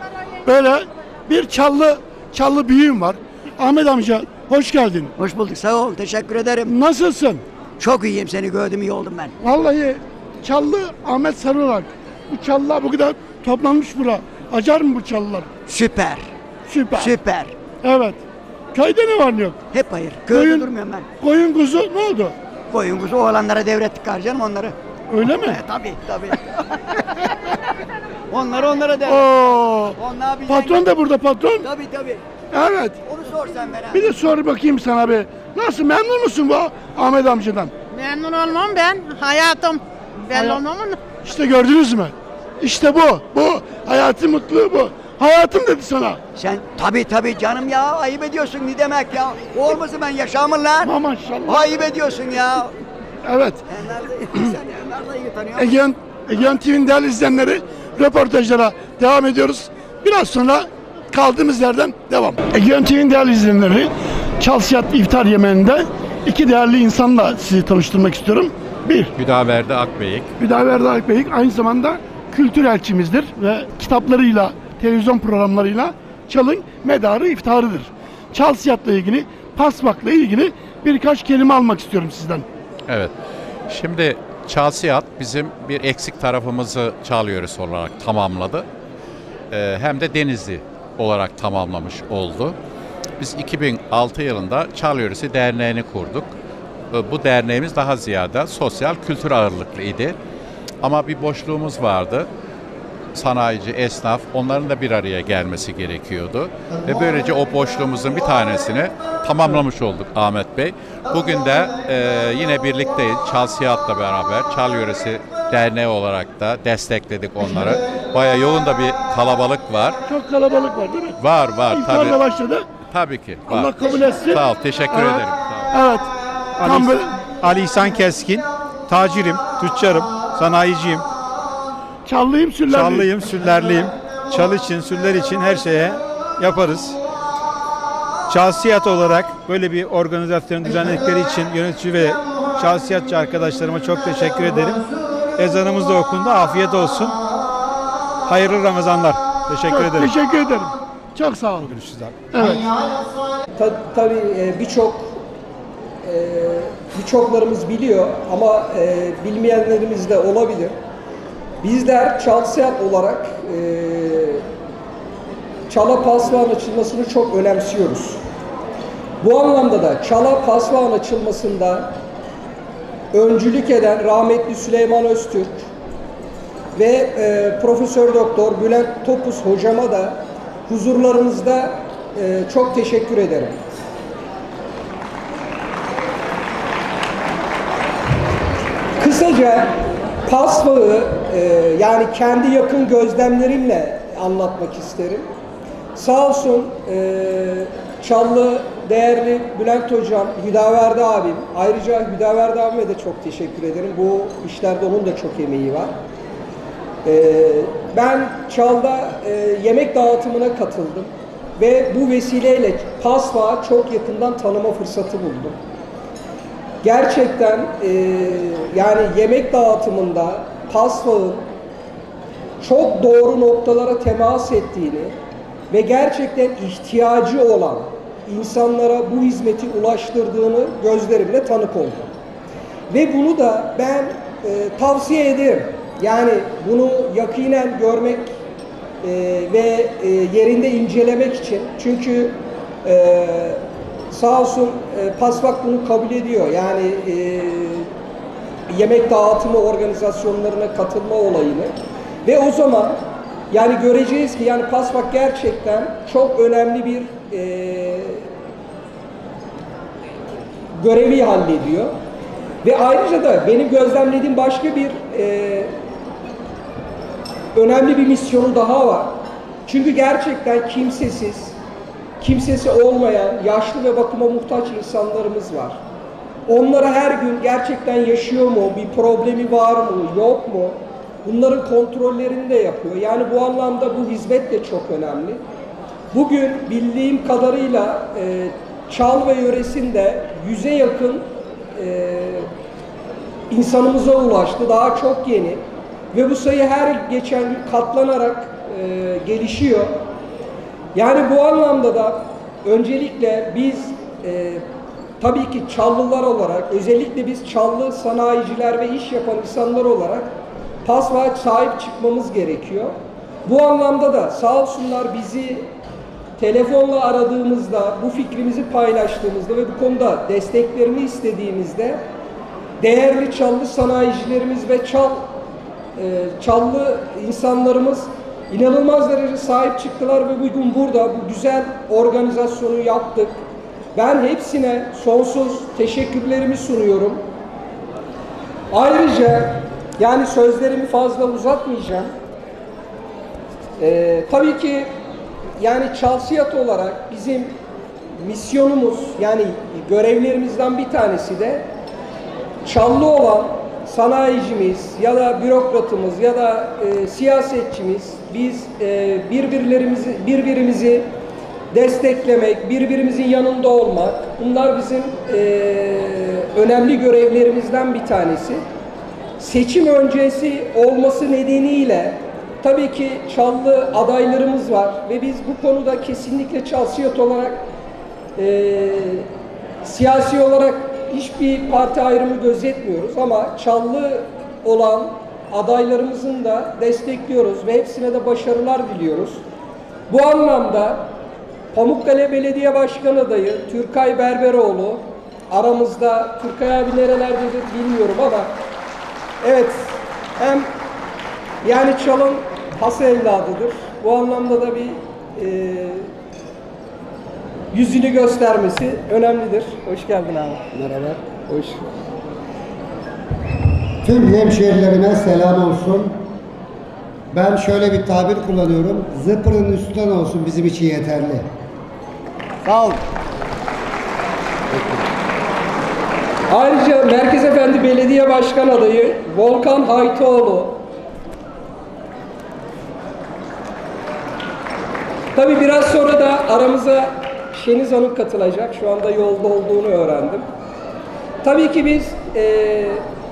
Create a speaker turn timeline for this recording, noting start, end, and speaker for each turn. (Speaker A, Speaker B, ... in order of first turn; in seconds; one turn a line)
Speaker A: 0.5-5.1
Speaker B: 5.2-6.7
Speaker A: 6.7-7.4
Speaker B: 7.8-9.4
Speaker A: 9.4-15.5
Speaker B: 15.7-16.3
Speaker A: 16.7-17.1
Speaker B: 17.0-17.6
Speaker A: 17.8-18.2
Speaker A: 18.7-19.6
Speaker B: 19.7-21.1
Speaker A: 20.3-22.4
Speaker B: 22.7-24.8
Speaker A: 25.1-25.6
Speaker B: 25.3-26.6
Speaker B: 28.3-29.3
Speaker A: 29.1-30.0
Speaker B: 29.9-30.9
Speaker A: 30.5-31.7
Speaker B: 31.6-32.2
Speaker A: 32.5-33.0
Speaker B: 33.1-34.1
Speaker A: 33.9-37.7
Speaker C: 37.9-41.0
Speaker A: 40.3-40.6
Speaker A: 41.2-46.2
Speaker B: 46.4-50.9
Speaker A: 50.8-51.8
Speaker B: 51.5-52.7
Speaker A: 53.2-53.6
Speaker B: 53.7-55.8
Speaker A: 55.6-69.1
Speaker D: 69.2-70.3
Speaker A: 70.4-82.5
Speaker D: 82.9-83.1
Speaker D: 83.7-88.7
Speaker D: 89.5-92.6
Speaker D: 93.2-96.3
Speaker D: 96.9-100.2
Speaker D: 100.8-102.3
Speaker D: 103.1-120.0
Speaker A: 120.1-122.7
Speaker D: 121.2-122.2
Speaker D: 122.9-125.7
Speaker A: 123.5-126.1
Speaker E: 126.6-131.1
Speaker A: 126.6-127.2
Speaker A: 132.1-133.1
Speaker E: 132.7-137.0
Speaker E: 138.3-144.9
Speaker E: 145.4-147.2
Speaker E: 148.3-150.1
Speaker A: 149.7-151.8
Speaker E: 151.7-152.3
Speaker A: 152.3-152.7
Speaker F: 153.6-155.2
Speaker F: 156.0-160.8
Speaker F: 161.6-164.4
Speaker F: 165.7-168.2
Speaker F: 169.2-171.9
Speaker F: 173.1-175.7
Speaker F: 176.8-183.6
Speaker F: 189.0-195.3
Speaker F: 195.9-205.9
Speaker F: 207.1-215.6
Speaker F: 216.8-221.5
Speaker F: 222.6-225.2
Speaker F: 225.7-232.1
Speaker F: 232.9-238.4
Speaker F: 239.0-247.9
Speaker F: 248.7-251.7
Speaker F: 252.2-258.3
Speaker F: 260.8-261.9
Speaker F: 262.6-265.7
Speaker F: 267.5-271.6
Speaker F: 272.2-275.8
Speaker F: 276.5-285.4
Speaker F: 286.1-292.5
Speaker F: 293.5-295.6
Speaker F: 296.1-299.9
Speaker F: 300.9-304.6
Speaker F: 305.2-310.3
Speaker F: 310.8-312.9
Speaker F: 313.4-315.7
Speaker F: 316.4-322.0
Speaker F: 322.8-325.3
Speaker F: 326.0-333.4
Speaker F: 333.9-337.2
Speaker F: 338.7-342.1
Speaker F: 343.8-344.9
Speaker F: 345.6-347.6
Speaker F: 348.2-351.7
Speaker F: 352.6-361.1
Speaker F: 361.7-368.6
Speaker F: 369.4-377.6
Speaker F: 378.4-379.3
Speaker F: 379.8-389.4
Speaker F: 390.1-391.1
Speaker F: 391.7-398.5
Speaker F: 399.4-400.7
Speaker F: 401.6-406.1
Speaker F: 407.7-410.6
Speaker G: 410.7-411.8
Speaker G: 414.0-416.2
Speaker G: 417.3-421.5
Speaker B: 422.6-423.0
Speaker F: 426.5-430.8
Speaker F: 435.4-440.5
Speaker F: 441.4-443.0